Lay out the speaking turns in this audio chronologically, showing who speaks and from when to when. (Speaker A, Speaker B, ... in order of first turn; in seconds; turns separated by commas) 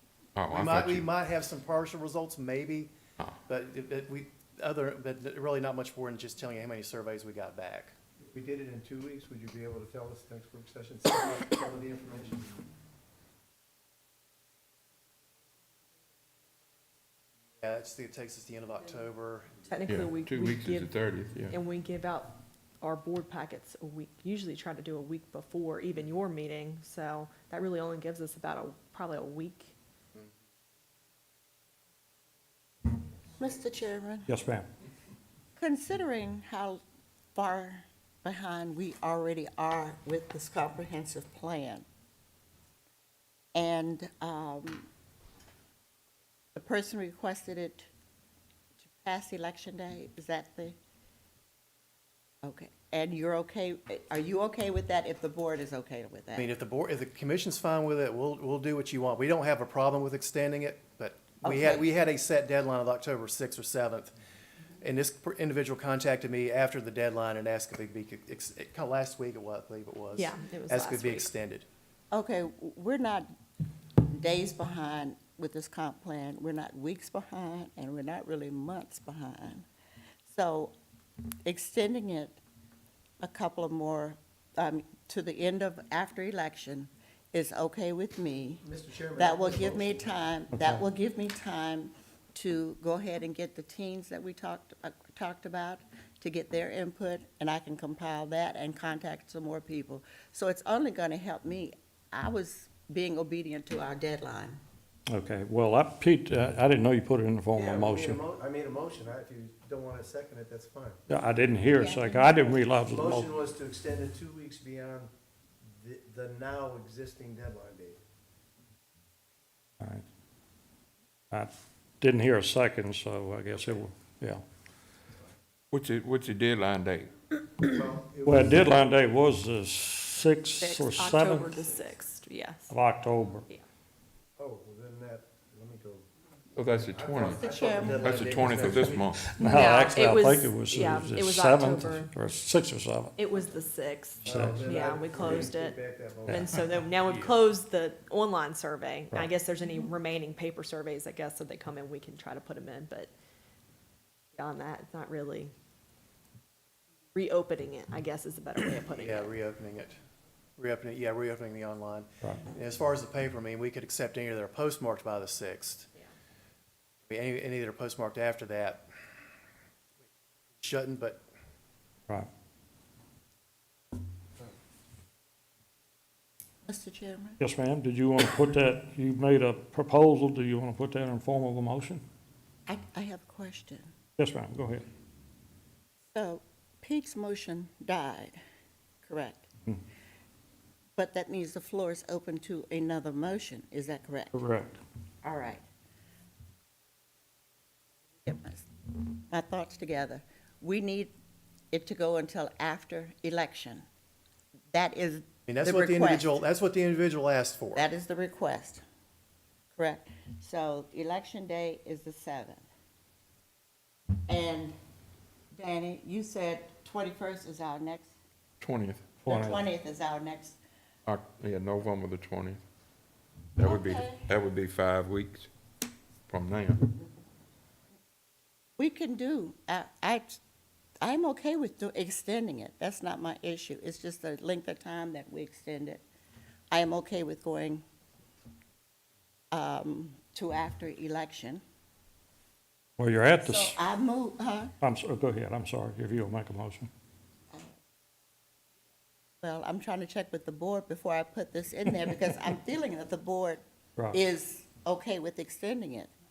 Speaker A: 0.3-1.1, Speaker B: 0.5-2.9, Speaker B: 3.5-7.9, Speaker C: 8.3-12.5, Speaker B: 17.6-19.6, Speaker D: 19.7-29.7, Speaker A: 19.9-21.6, Speaker E: 33.4-34.3, Speaker F: 34.3-34.7, Speaker E: 35.6-36.8, Speaker E: 37.3-41.8, Speaker E: 43.5-44.9, Speaker E: 46.5-47.9, Speaker E: 48.8-50.8, Speaker E: 52.4-56.5, Speaker B: 56.4-64.1, Speaker E: 61.4-61.9, Speaker B: 64.8-71.7, Speaker D: 70.2-71.3, Speaker E: 72.1-73.3, Speaker E: 74.0-79.7, Speaker E: 80.3-80.7, Speaker E: 81.4-82.4, Speaker E: 83.2-88.6, Speaker C: 88.6-90.2, Speaker E: 89.2-104.6, Speaker F: 90.5-90.8, Speaker F: 105.1-108.2, Speaker C: 107.5-111.0, Speaker F: 111.1-113.3, Speaker E: 111.7-112.6, Speaker C: 112.8-115.1, Speaker C: 115.6-118.0, Speaker F: 121.3-124.4, Speaker A: 125.7-127.1, Speaker C: 127.6-128.7, Speaker F: 128.2-131.7, Speaker D: 130.6-132.7, Speaker F: 132.7-133.5, Speaker C: 134.4-136.1, Speaker A: 136.6-139.3, Speaker C: 136.6-139.2, Speaker E: 137.3-138.5, Speaker F: 139.2-143.1, Speaker D: 139.4-142.1, Speaker D: 143.2-153.1, Speaker C: 144.2-146.5, Speaker F: 144.2-144.6, Speaker D: 154.3-155.5, Speaker D: 157.1-159.3, Speaker B: 158.9-159.9, Speaker B: 160.6-165.9, Speaker B: 167.1-168.9, Speaker B: 170.6-171.2, Speaker E: 176.7-177.4, Speaker F: 177.4-182.0, Speaker E: 182.7-183.9, Speaker F: 184.2-184.8, Speaker E: 186.1-188.4, Speaker E: 189.0-189.5, Speaker E: 190.9-194.3, Speaker F: 194.3-194.8, Speaker E: 195.2-195.6, Speaker E: 198.2-201.1, Speaker E: 201.7-203.8, Speaker E: 204.7-206.4, Speaker B: 205.5-207.8, Speaker E: 207.7-208.8, Speaker E: 209.7-212.6, Speaker E: 214.3-214.8, Speaker E: 215.5-218.1, Speaker A: 218.6-219.2, Speaker F: 219.2-219.6, Speaker E: 219.2-220.6, Speaker A: 221.1-222.6, Speaker A: 223.6-225.5, Speaker E: 223.6-224.3, Speaker A: 226.3-226.8, Speaker E: 228.8-230.4, Speaker E: 231.0-236.0, Speaker E: 236.7-237.8, Speaker E: 239.5-241.6, Speaker F: 243.0-243.8, Speaker E: 243.4-244.7, Speaker F: 244.8-246.9, Speaker E: 249.4-256.1